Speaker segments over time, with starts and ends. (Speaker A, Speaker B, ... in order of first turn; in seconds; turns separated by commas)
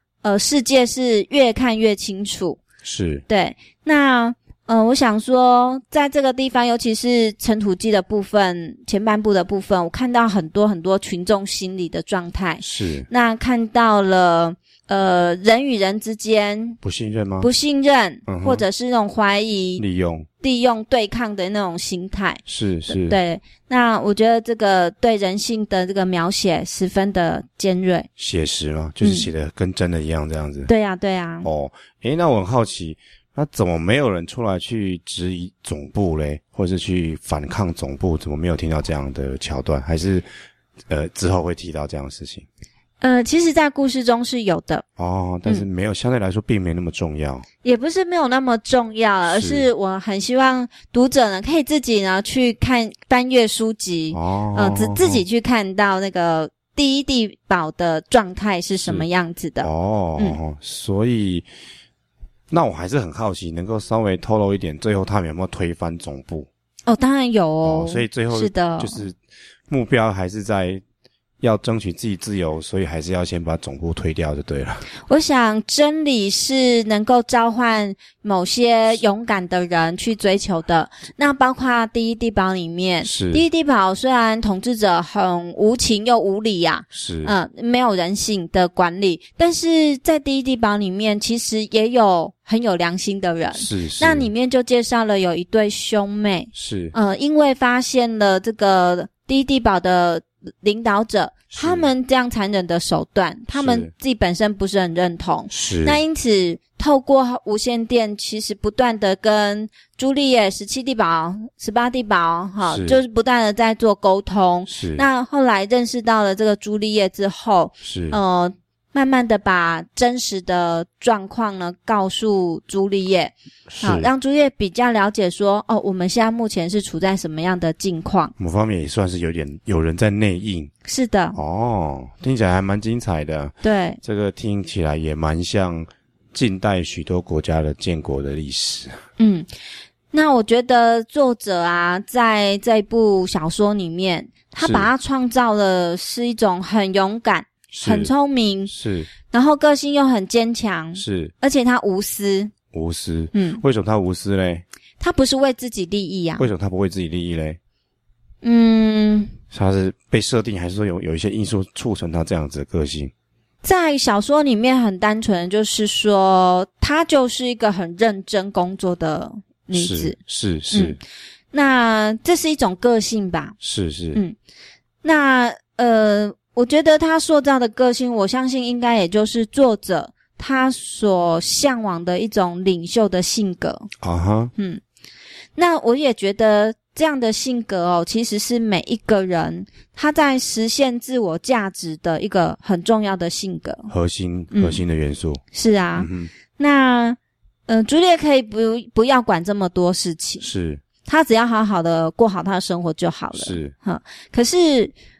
Speaker A: 0.2-2.6, Speaker B: 2.8-3.2, Speaker A: 3.3-16.8, Speaker B: 12.6-13.1, Speaker B: 16.8-17.5, Speaker A: 17.4-19.8, Speaker B: 18.3-18.6, Speaker B: 19.8-20.3, Speaker A: 20.4-28.1, Speaker B: 22.4-23.2, Speaker B: 28.2-30.7, Speaker A: 29.0-29.3, Speaker A: 30.7-31.5, Speaker B: 31.4-40.2, Speaker B: 40.9-42.5, Speaker A: 43.0-44.8, Speaker B: 45.0-47.5, Speaker A: 47.6-60.4, Speaker B: 49.3-49.7, Speaker B: 54.1-55.2, Speaker B: 59.6-61.5, Speaker B: 62.5-66.5, Speaker A: 66.9-69.0, Speaker B: 67.6-69.2, Speaker B: 69.7-70.8, Speaker B: 71.4-74.8, Speaker A: 75.1-128.3, Speaker B: 83.0-83.4, Speaker B: 86.9-87.3, Speaker B: 93.5-94.3, Speaker B: 96.5-96.9, Speaker B: 101.5-101.9, Speaker B: 103.5-103.9, Speaker B: 105.5-106.0, Speaker B: 112.6-113.0, Speaker B: 114.7-115.0, Speaker B: 117.8-118.2, Speaker B: 123.7-124.1, Speaker B: 128.4-130.7, Speaker A: 130.8-131.4, Speaker B: 131.3-139.0, Speaker A: 133.6-134.0, Speaker A: 139.2-139.5, Speaker A: 140.1-148.7, Speaker B: 144.6-144.9, Speaker B: 147.7-148.1, Speaker B: 148.7-149.1, Speaker A: 149.3-152.5, Speaker B: 150.9-151.3, Speaker B: 152.7-154.6, Speaker A: 153.3-153.6, Speaker A: 155.0-156.5, Speaker B: 156.4-157.6, Speaker A: 158.4-159.3, Speaker B: 159.5-163.1, Speaker A: 163.6-170.2, Speaker B: 169.7-171.0, Speaker A: 170.7-171.0, Speaker A: 171.5-173.5, Speaker B: 173.6-174.2, Speaker A: 175.0-183.9, Speaker B: 184.0-184.5, Speaker A: 184.6-184.8, Speaker A: 185.6-193.9, Speaker B: 193.9-195.4, Speaker A: 194.5-194.8, Speaker A: 195.5-200.4, Speaker B: 195.9-196.3, Speaker B: 200.4-200.8, Speaker A: 201.0-204.9, Speaker B: 203.4-203.7